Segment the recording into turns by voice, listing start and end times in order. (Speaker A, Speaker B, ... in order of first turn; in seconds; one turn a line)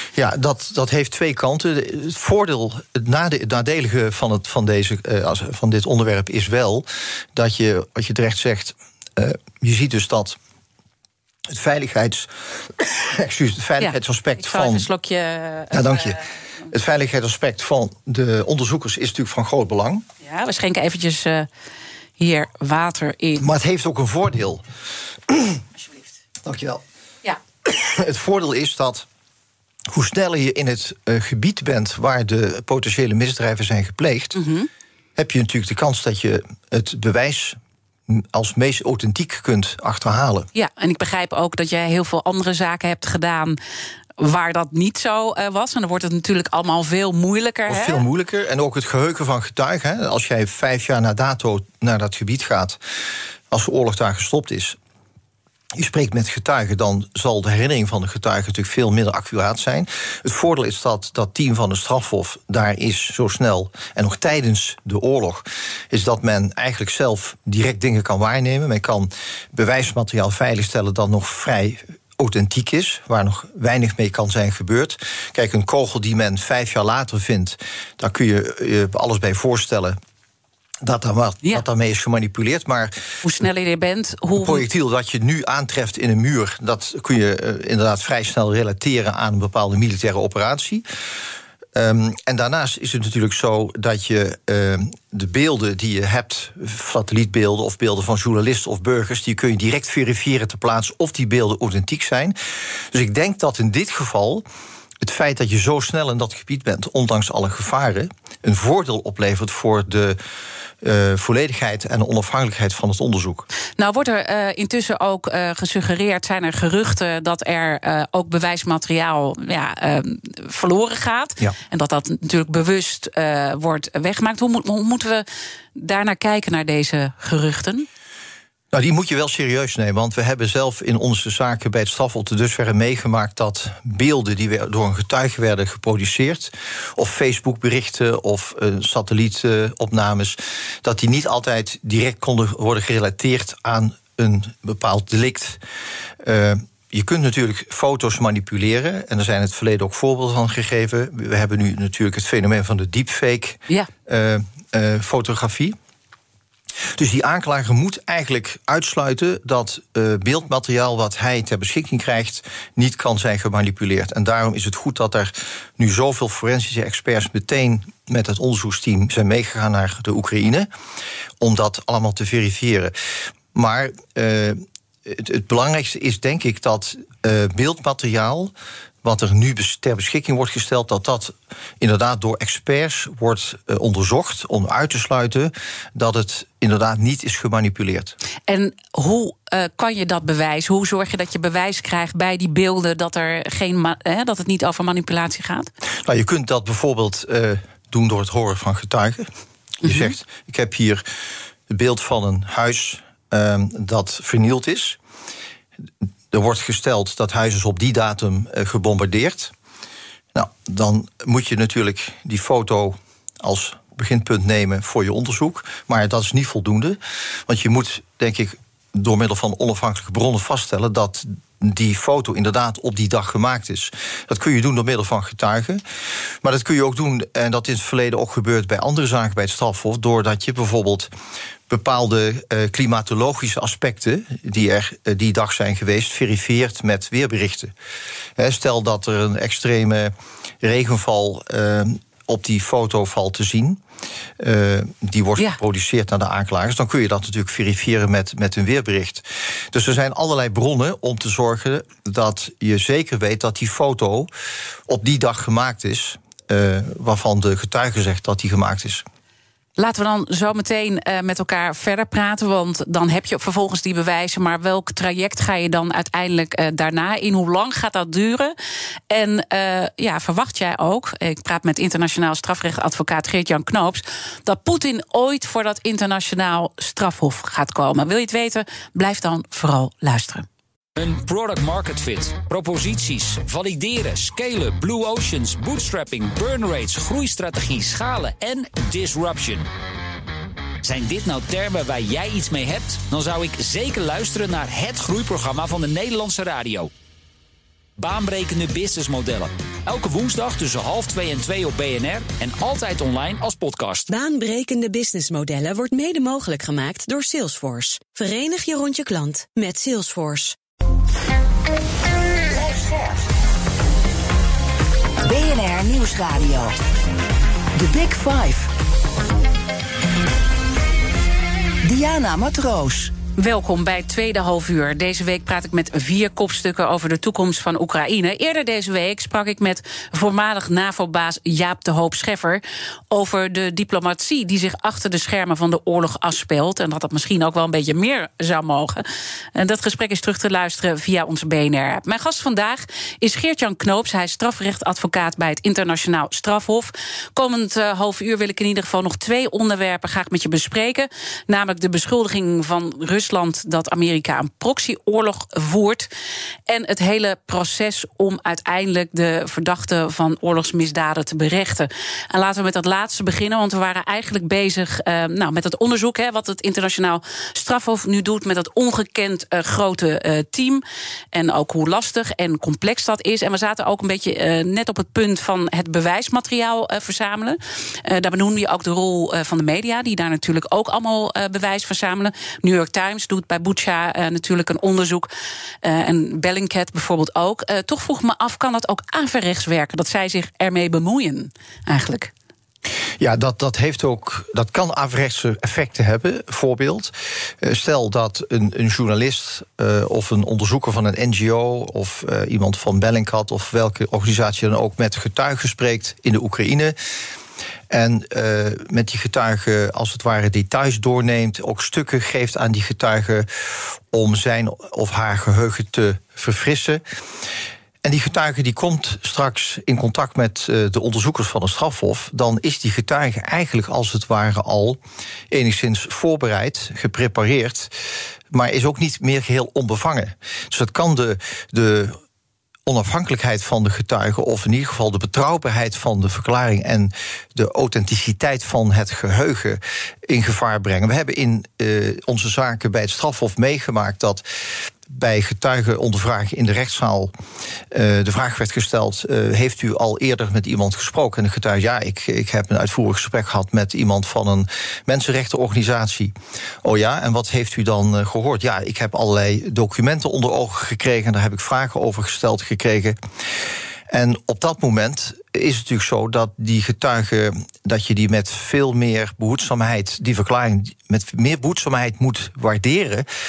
Speaker A: 0.1-10.4
Speaker A: 11.5-14.9
Speaker B: 13.8-16.2
Speaker A: 15.7-20.1
Speaker B: 20.2-21.5
Speaker B: 22.2-23.5
Speaker A: 23.4-24.6
Speaker A: 25.3-25.6
Speaker A: 26.4-26.8
Speaker A: 27.6-29.1
Speaker A: 29.9-34.4
Speaker B: 34.4-34.7
Speaker A: 35.2-40.5
Speaker B: 40.5-43.6
Speaker B: 44.2-48.0
Speaker A: 47.7-52.8
Speaker A: 53.5-54.8
Speaker A: 55.7-80.0
Speaker A: 80.8-83.1
Speaker B: 83.2-84.6
Speaker A: 84.4-90.8
Speaker A: 91.8-104.5
Speaker A: 105.0-110.2
Speaker A: 110.8-113.5
Speaker B: 113.8-127.9
Speaker A: 128.7-145.6
Speaker A: 146.2-155.8
Speaker A: 157.0-170.7
Speaker A: 171.4-172.9
Speaker A: 173.5-188.1
Speaker B: 188.5-195.7
Speaker A: 196.1-201.1
Speaker B: 199.8-200.1
Speaker A: 201.7-205.0
Speaker A: 206.3-209.5
Speaker A: 210.3-231.1
Speaker A: 231.7-237.7
Speaker A: 238.4-243.8
Speaker A: 244.4-254.3
Speaker A: 254.9-259.1
Speaker B: 259.8-268.6
Speaker B: 269.1-280.5
Speaker C: 281.0-289.7
Speaker C: 290.8-296.9
Speaker C: 298.0-304.1
Speaker D: 304.1-310.6
Speaker E: 312.5-313.3
Speaker E: 315.2-316.8
Speaker E: 317.8-318.7
Speaker E: 321.8-323.1
Speaker B: 323.4-339.0
Speaker B: 339.6-356.1
Speaker B: 356.7-385.3
Speaker B: 385.8-392.3
Speaker A: 393.2-407.0
Speaker A: 407.9-417.0
Speaker A: 418.0-428.0
Speaker A: 428.5-432.2
Speaker A: 432.9-444.4
Speaker A: 445.1-447.3
Speaker A: 447.9-463.2
Speaker A: 464.1-473.3